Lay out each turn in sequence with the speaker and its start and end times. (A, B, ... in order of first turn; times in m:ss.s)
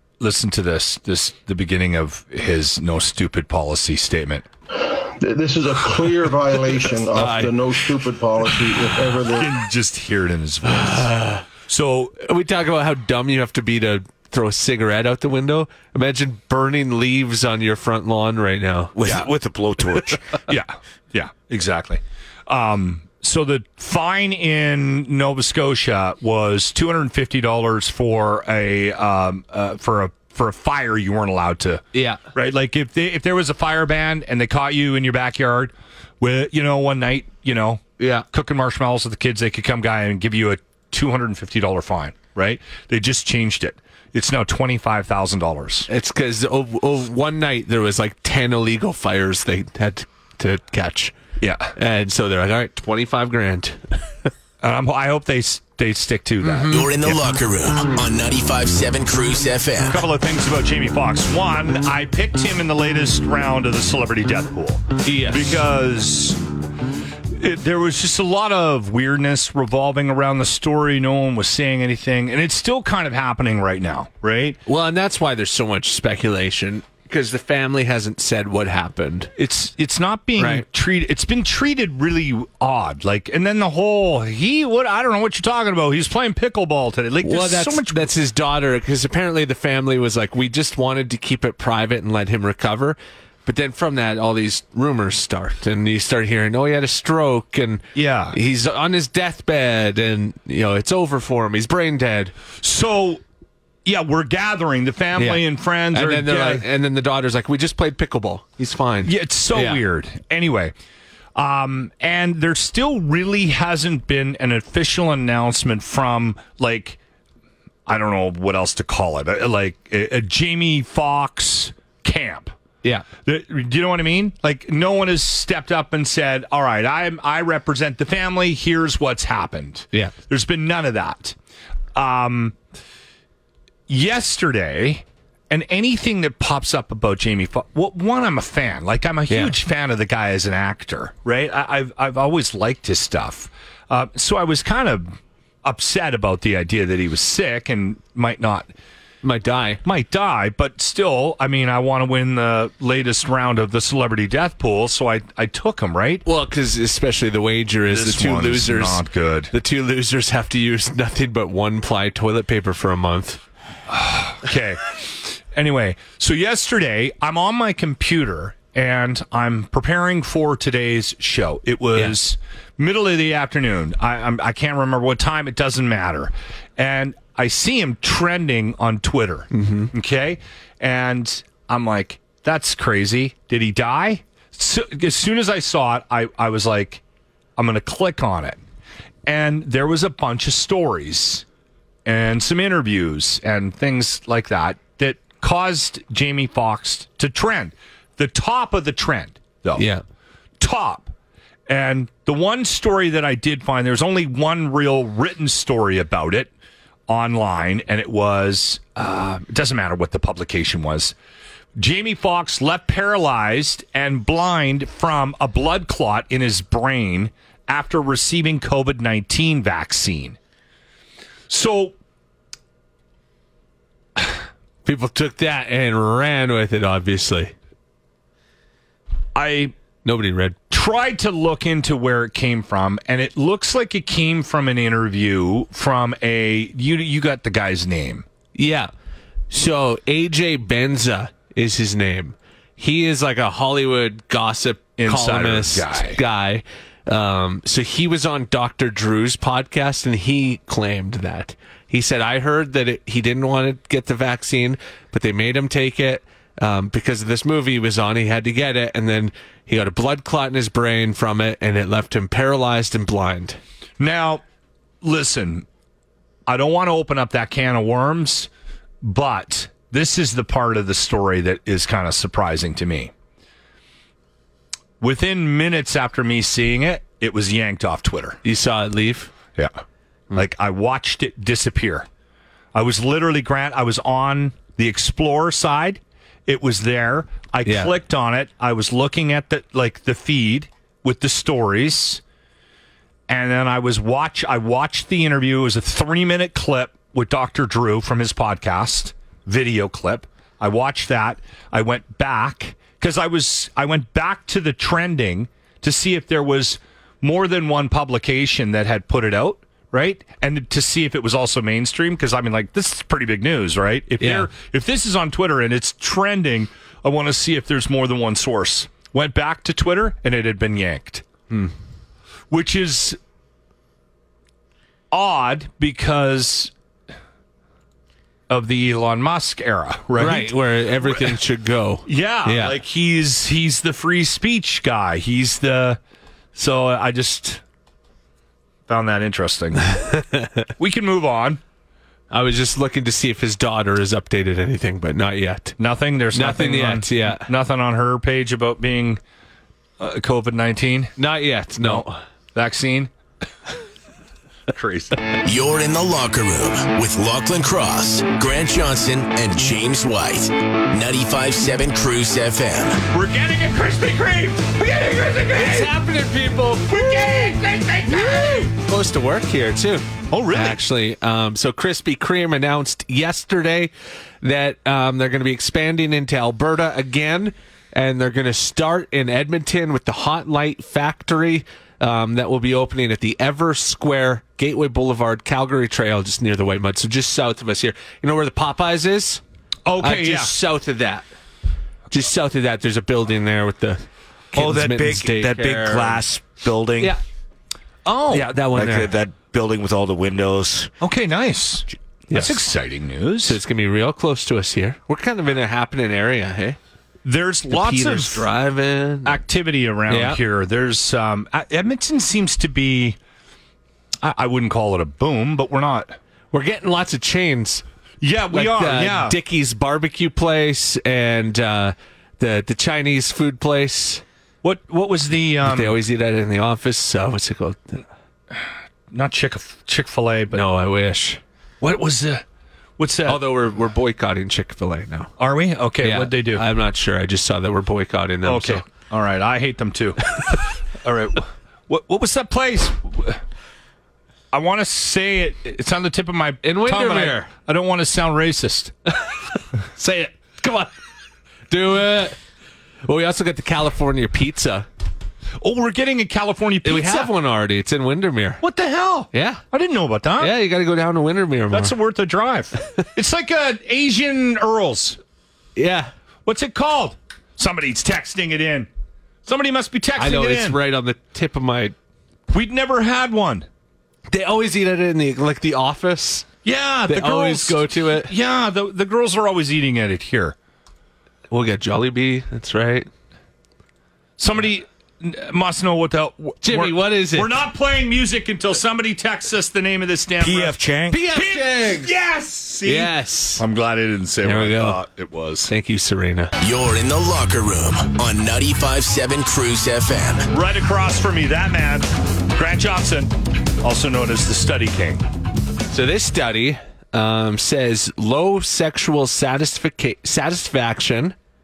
0:00.2-0:04.4 A
0:04.7-0:09.5 B
0:07.1-0:07.6 C
0:09.3-0:11.1 A
0:10.7-0:11.4 C
0:11.7-0:12.2 A
0:12.2-0:19.0 C
0:19.0-0:20.2 D
0:20.5-0:45.9 A
0:31.9-0:32.2 C
0:38.0-0:38.2 C
0:45.9-0:51.1 C
0:51.4-0:51.7 A
0:51.8-0:54.1 C
0:54.6-0:57.2 A
0:56.4-0:56.9 C
0:56.7-1:00.0 E
0:59.9-1:06.4 A
1:05.0-1:05.6 C
1:07.3-1:14.6 A
1:14.6-1:19.3 C
1:19.4-1:28.1 A
1:20.4-1:20.6 C
1:27.2-1:42.3 C
1:37.9-1:38.4 A
1:42.6-1:43.2 A
1:43.8-1:46.6 A
1:45.2-1:49.8 C
1:49.0-1:50.7 A
1:51.3-1:57.0 A
1:57.9-2:02.5 A
2:03.2-2:11.4 A
2:11.9-2:12.6 A
2:13.9-2:28.7 A
2:29.2-2:29.8 C
2:29.8-2:36.2 A
2:36.2-2:43.4 C
2:37.9-2:39.5 A
2:43.9-3:07.0 A
2:59.5-2:59.9 C
3:07.6-3:08.6 A
3:09.2-3:11.4 A
3:12.0-3:19.9 A
3:19.8-3:20.0 C
3:20.6-3:21.1 A
3:21.7-3:26.5 A
3:27.1-3:31.1 A
3:31.8-3:40.4 A
3:41.5-3:41.9 A
3:44.8-3:47.5 C
3:49.3-3:49.7 A
3:50.0-3:50.6 C
3:50.7-3:58.2 A
3:58.5-3:58.9 C
3:59.5-4:23.6 C
4:05.0-4:06.2 A
4:24.0-4:24.4 A
4:25.0-4:25.6 A
4:26.5-4:28.5 A
4:29.0-4:33.1 A
4:35.0-4:38.4 A
4:38.4-4:39.3 C
4:40.3-4:42.1 A
4:42.7-4:52.2 A
4:47.6-4:47.9 C
4:53.3-5:21.2 A
5:14.2-5:14.5 C
5:22.5-5:23.2 A
5:25.1-5:26.7 A
5:28.5-5:31.4 A
5:30.2-5:32.8 C
5:32.0-5:36.0 A
5:36.5-5:37.6 A
5:38.9-5:40.0 A
5:40.1-5:40.5 C
5:40.8-5:41.6 A
5:42.3-5:45.8 C
5:45.8-5:49.2 A
5:46.3-5:47.5 C
5:50.0-5:51.1 A
5:51.2-5:52.2 C
5:51.8-5:53.1 A
5:54.7-5:55.2 A
5:55.4-6:03.0 E
6:03.1-6:05.9 A
6:05.5-6:13.9 C
6:06.9-6:08.7 A
6:10.3-6:10.8 A
6:14.4-6:29.4 C
6:29.8-6:30.5 A
6:30.0-6:31.3 C
6:32.1-6:36.2 C
6:34.5-6:37.2 D
6:38.0-6:38.5 A
6:38.3-6:39.1 C
6:38.7-6:40.9 D
6:41.0-6:43.6 A
6:42.3-6:42.6 C
6:43.4-6:46.8 C
6:47.2-6:48.4 A
6:47.7-6:49.4 C
6:49.2-6:53.2 A
6:50.1-6:50.4 C
6:54.2-6:56.2 A
6:56.5-6:57.8 C
6:58.2-6:59.4 A
6:58.5-7:04.2 C
7:04.6-7:06.0 A
7:05.6-7:08.0 C
7:09.1-7:10.6 A
7:10.5-7:11.4 C
7:11.8-7:12.4 A
7:13.0-7:13.4 A
7:13.2-7:15.3 C
7:15.4-7:16.6 A
7:16.0-7:18.8 C
7:18.4-7:23.4 A
7:24.5-7:28.9 A
7:26.6-7:27.5 C
7:30.0-7:30.9 C
7:31.7-7:32.4 C
7:33.0-7:34.8 C
7:35.6-7:37.3 A
7:36.8-7:38.6 C
7:38.6-7:40.5 A
7:39.3-7:39.6 C
7:40.4-7:41.9 C
7:41.7-7:45.2 A
7:45.8-7:46.1 C
7:46.4-7:48.9 A
7:49.4-7:50.8 A
7:50.2-7:51.9 C
7:52.5-7:53.7 A
7:54.3-7:56.5 C
7:56.6-8:00.6 A
7:57.1-7:58.3 C
8:01.5-8:03.1 C
8:04.4-8:10.8 A
8:06.6-8:07.5 C
8:10.4-8:11.2 D
8:11.1-8:12.1 C
8:11.3-8:15.7 A
8:12.8-8:13.6 C
8:14.4-8:15.0 C
8:15.7-8:16.5 C
8:16.6-8:20.5 E
8:20.5-8:25.2 A
8:25.9-8:31.3 C